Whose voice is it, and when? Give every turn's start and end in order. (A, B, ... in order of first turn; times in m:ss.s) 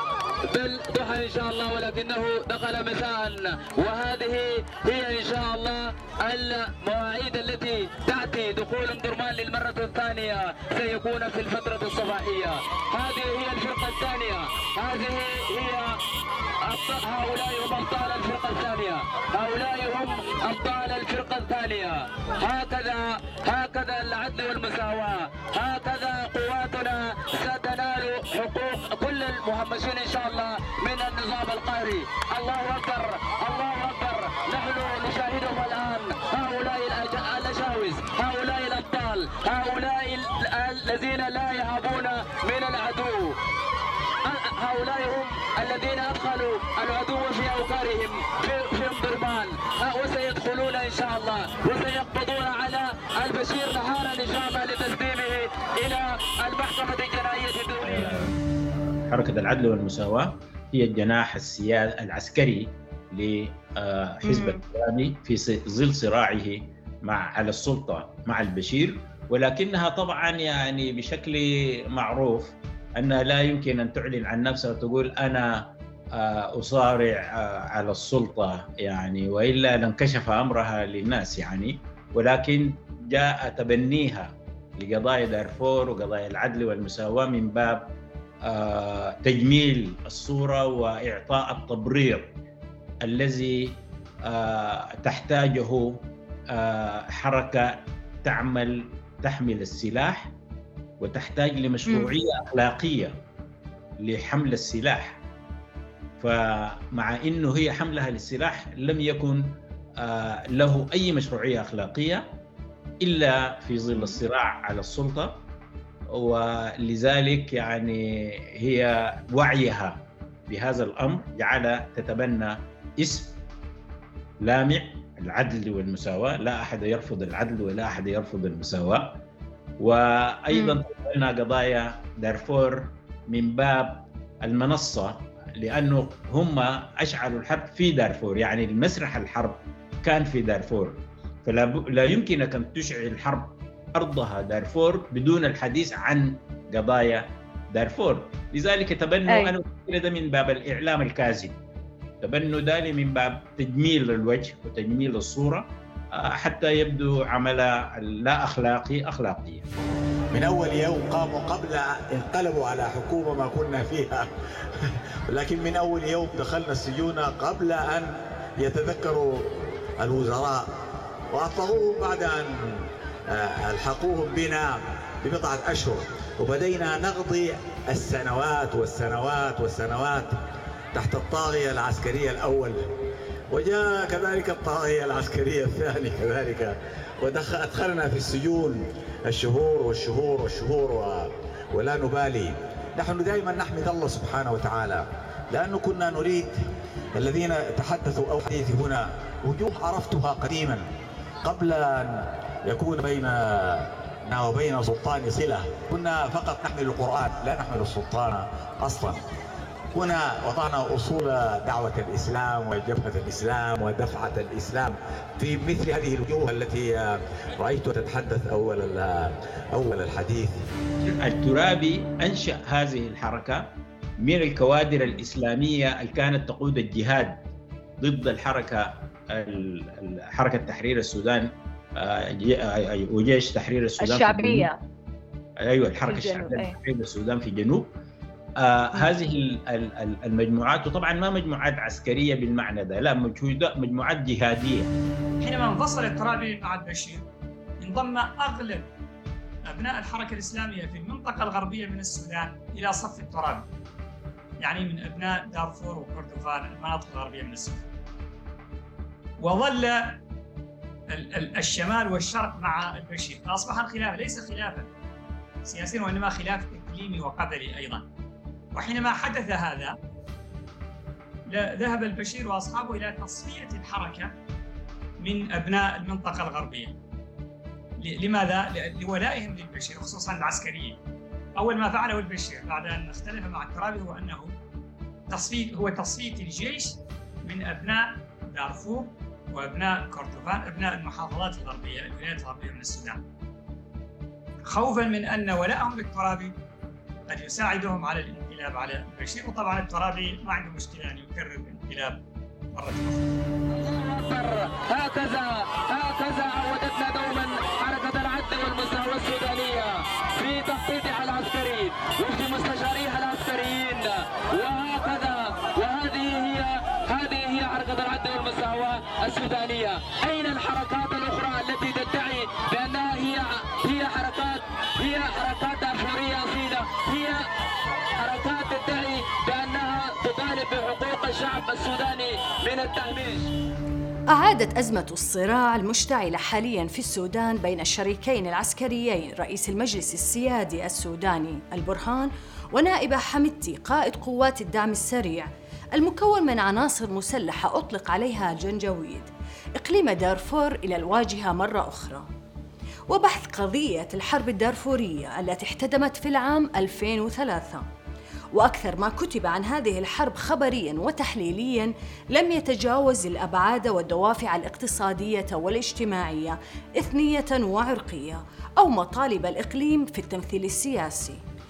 0:00.5-0:15.9 A
0:16.6-0:43.4 A
0:44.2-0:58.3 A
0:57.8-0:58.5 B
0:59.1-1:15.6 B
1:04.2-1:04.6 C
1:16.1-1:27.8 B
1:28.4-1:32.3 B
1:33.0-1:33.7 B
1:34.2-1:40.3 B
1:41.0-1:43.2 B
1:41.9-1:42.1 C
1:44.0-1:45.2 B
1:46.2-1:52.2 B
1:53.0-1:55.3 B
1:56.1-2:03.4 B
2:04.4-2:09.2 B
2:09.8-2:31.6 B
2:10.5-2:10.8 C
2:29.3-2:29.5 C
2:32.2-2:39.6 B
2:40.3-2:50.7 D
2:51.3-3:00.4 D
3:00.9-3:02.8 D
3:03.5-3:20.8 D
3:21.4-3:29.2 D
3:29.9-3:40.5 D
3:41.0-3:43.6 B
3:44.2-3:47.4 B
3:48.0-3:54.7 B
3:54.0-3:54.8 C
3:55.6-3:57.9 B
3:56.1-3:56.8 C
3:58.6-4:04.9 B
4:05.4-4:07.2 E
4:07.8-4:08.9 E
4:09.7-4:13.6 E
4:14.6-4:17.9 E
4:19.4-4:20.1 E
4:21.1-4:24.9 E
4:25.6-4:28.0 E
4:28.7-4:29.9 E
4:31.5-4:34.3 E
4:35.2-4:37.0 E
4:38.0-4:41.0 E
4:41.6-4:44.5 E
4:45.3-4:53.2 E
4:54.6-4:56.5 E
4:57.3-5:02.2 E
5:02.7-5:03.2 E
5:03.7-5:27.4 A
5:28.2-5:33.5 A
5:34.3-5:52.3 C
5:53.1-5:57.8 C
5:58.5-6:11.4 C